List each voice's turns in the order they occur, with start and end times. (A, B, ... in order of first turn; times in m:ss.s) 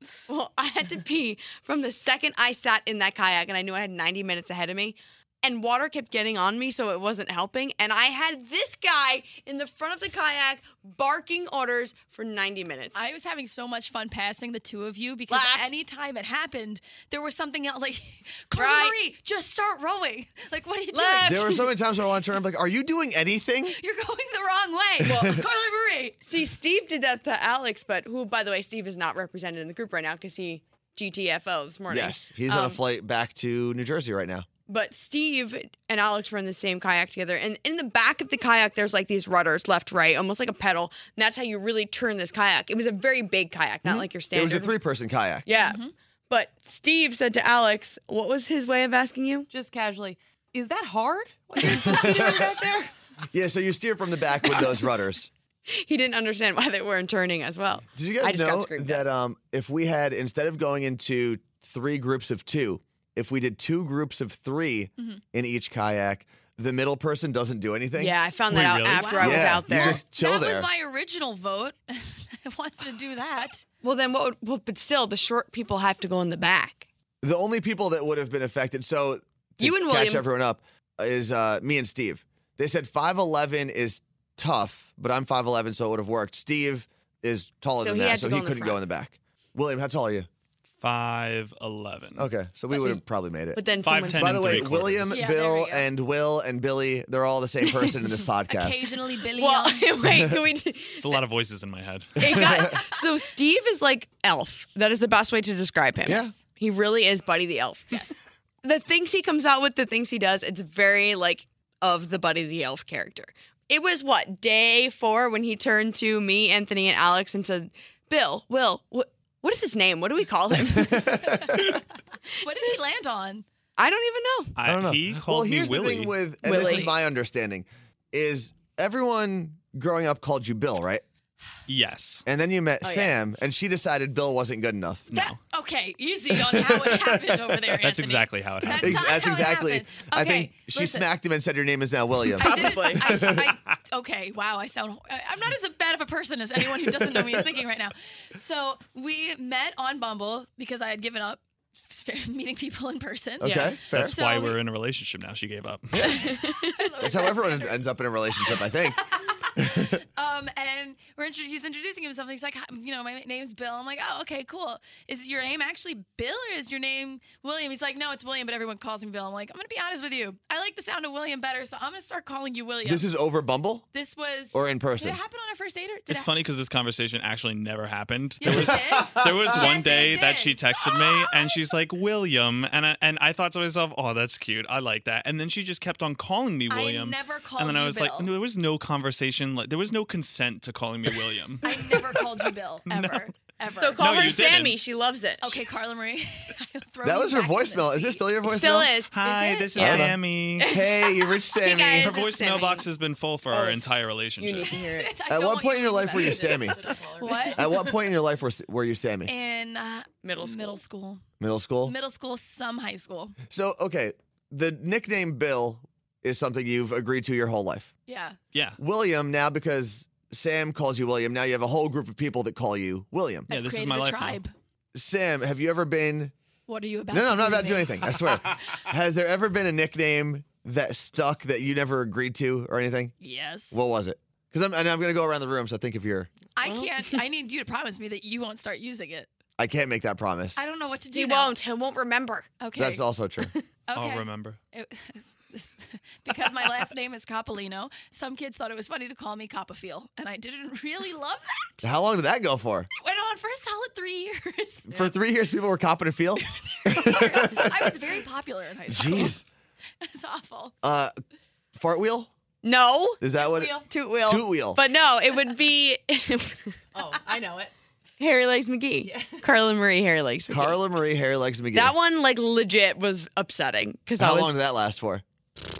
0:00.3-0:13.0 A
0:12.9-0:21.6 B
0:15.3-0:15.6 A
0:18.5-0:19.0 A
0:20.9-0:21.6 A
0:21.2-0:23.8 C
0:23.7-0:26.2 B
0:25.0-0:25.4 C
0:26.2-0:32.8 A
0:31.9-0:34.5 C
0:34.7-0:44.8 A
0:43.8-0:45.4 C
0:45.4-0:49.5 A
0:45.5-0:45.9 B
0:49.5-0:52.9 D
0:51.6-0:52.4 C
0:53.3-0:55.3 C
0:55.7-0:59.0 A
0:57.9-1:08.1 C
1:08.0-1:10.0 A
1:08.5-1:09.9 E
1:08.9-1:13.6 B
1:09.2-1:10.7 C
1:13.8-1:16.8 A
1:17.2-1:30.3 C
1:19.6-1:20.2 A
1:27.8-1:28.8 A
1:30.8-1:32.3 E
1:32.2-1:38.8 C
1:32.7-1:33.0 A
1:33.5-1:34.9 A
1:33.8-1:35.2 E
1:35.1-1:35.9 B
1:38.5-1:39.9 B
1:39.3-1:41.2 A
1:41.0-1:42.3 E
1:42.2-2:01.2 A
1:46.0-1:46.3 C
1:47.9-1:48.2 B
2:00.6-2:01.6 C
2:02.4-2:03.4 B
2:03.8-2:04.5 A
2:04.6-2:06.2 E
2:04.6-2:11.0 C
2:06.4-2:06.9 A
2:11.7-2:12.2 E
2:12.2-2:15.1 C
2:12.8-2:13.1 A
2:15.1-2:15.4 E
2:15.1-2:21.1 B
2:16.5-2:17.6 C
2:17.8-2:19.1 E
2:18.6-2:23.5 C
2:22.4-2:23.3 A
2:22.4-2:34.6 B
2:33.4-2:34.2 C
2:33.4-2:33.7 A
2:33.9-2:36.2 E
2:35.9-2:36.2 C
2:36.0-2:36.9 A
2:36.3-2:37.8 B
2:37.0-2:39.0 C
2:38.4-2:53.1 B
2:39.6-2:40.0 C
2:52.8-2:53.8 C
2:53.9-2:56.3 B
2:54.5-2:55.2 C
2:56.1-3:12.3 E
2:58.4-3:01.6 B
2:58.5-2:59.7 C
3:06.7-3:08.3 B
3:11.6-3:14.0 B
3:12.9-3:13.3 E
3:13.8-3:15.6 A
3:14.0-3:14.8 E
3:15.4-3:18.2 B
3:17.0-3:18.9 C
3:18.4-3:19.1 A
3:19.1-3:20.7 E
3:19.2-3:19.9 B
3:19.7-3:22.9 A
3:19.8-3:22.2 C
3:22.0-3:24.8 E
3:23.5-3:25.1 A
3:24.8-3:27.9 B
3:25.3-3:26.8 C
3:26.1-3:27.8 D
3:27.6-3:29.3 C
3:29.3-3:31.2 B
3:30.2-3:30.8 A
3:31.4-3:31.9 C
3:31.8-3:33.4 B
3:33.5-3:37.9 C
3:38.1-3:38.4 B
3:38.5-3:38.8 E
3:38.8-3:43.5 C
3:43.5-3:44.5 B
3:43.5-3:44.4 E
3:44.9-3:46.3 C
3:46.7-3:48.0 B
3:47.1-3:53.1 C
3:53.2-3:53.8 B
3:53.7-3:56.3 C
3:56.5-3:59.3 B
3:56.6-3:57.2 A
3:59.6-4:00.6 C
4:00.6-4:01.5 B
4:01.1-4:02.5 A
4:02.6-4:03.0 B
4:02.8-4:03.5 C
4:03.9-4:11.9 B
4:03.9-4:04.6 E
4:11.8-4:12.9 C
4:13.0-4:15.1 B
4:14.9-4:18.0 C
4:16.4-4:19.4 B
4:18.9-4:19.4 C
4:20.0-4:20.8 B
4:20.8-4:21.1 C
4:21.7-4:22.3 C
4:22.6-4:23.2 A
4:23.2-4:24.8 C
4:23.3-4:23.9 D
4:23.8-4:26.8 A
4:26.9-4:27.7 D
4:28.2-4:30.8 A
4:29.0-4:29.4 D
4:30.5-4:31.9 C
4:31.7-4:34.5 A
4:34.2-4:35.2 C